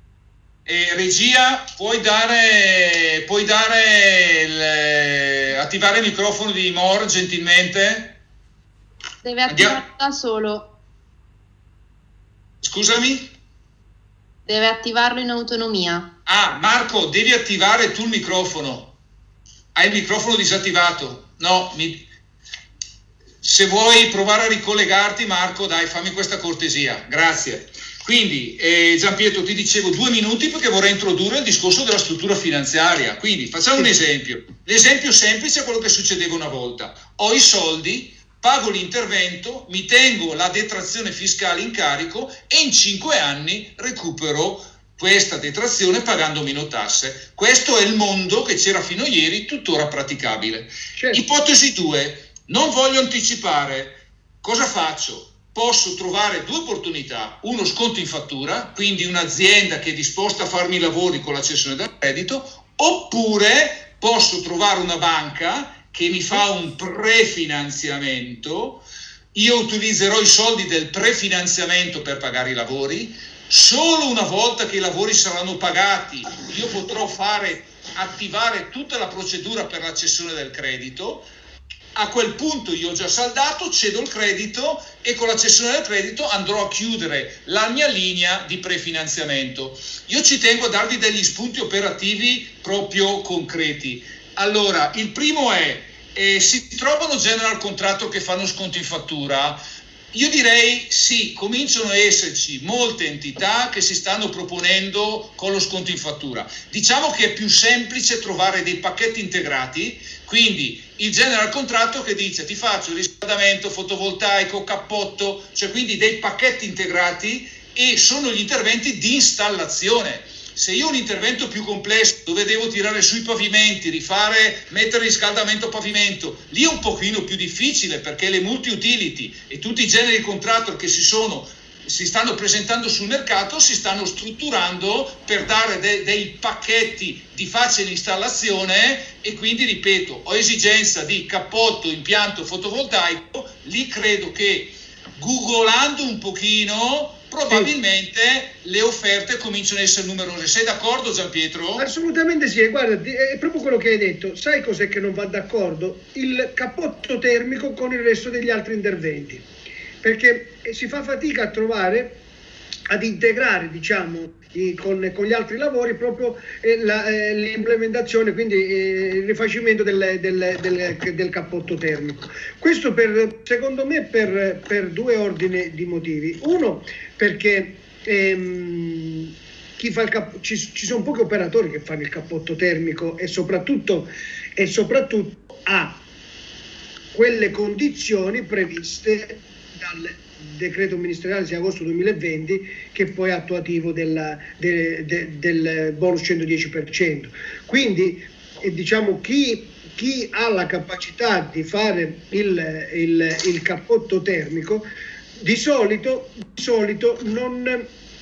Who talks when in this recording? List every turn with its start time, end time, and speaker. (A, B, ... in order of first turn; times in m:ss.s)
0:00.7-0:08.2 A
0:09.2-0:10.7 B
0:09.5-0:09.8 A
0:12.6-0:13.3 A
0:14.5-0:16.1 B
0:16.3-0:18.9 A
0:19.8-0:22.0 A
0:23.4-1:08.8 A
0:51.0-0:51.2 C
1:09.3-1:21.3 A
1:22.0-1:39.6 A
1:40.1-2:31.9 A
2:31.8-2:39.4 C
2:40.0-2:42.2 C
2:42.9-3:06.0 C
3:07.1-3:24.9 C
3:25.4-3:27.9 C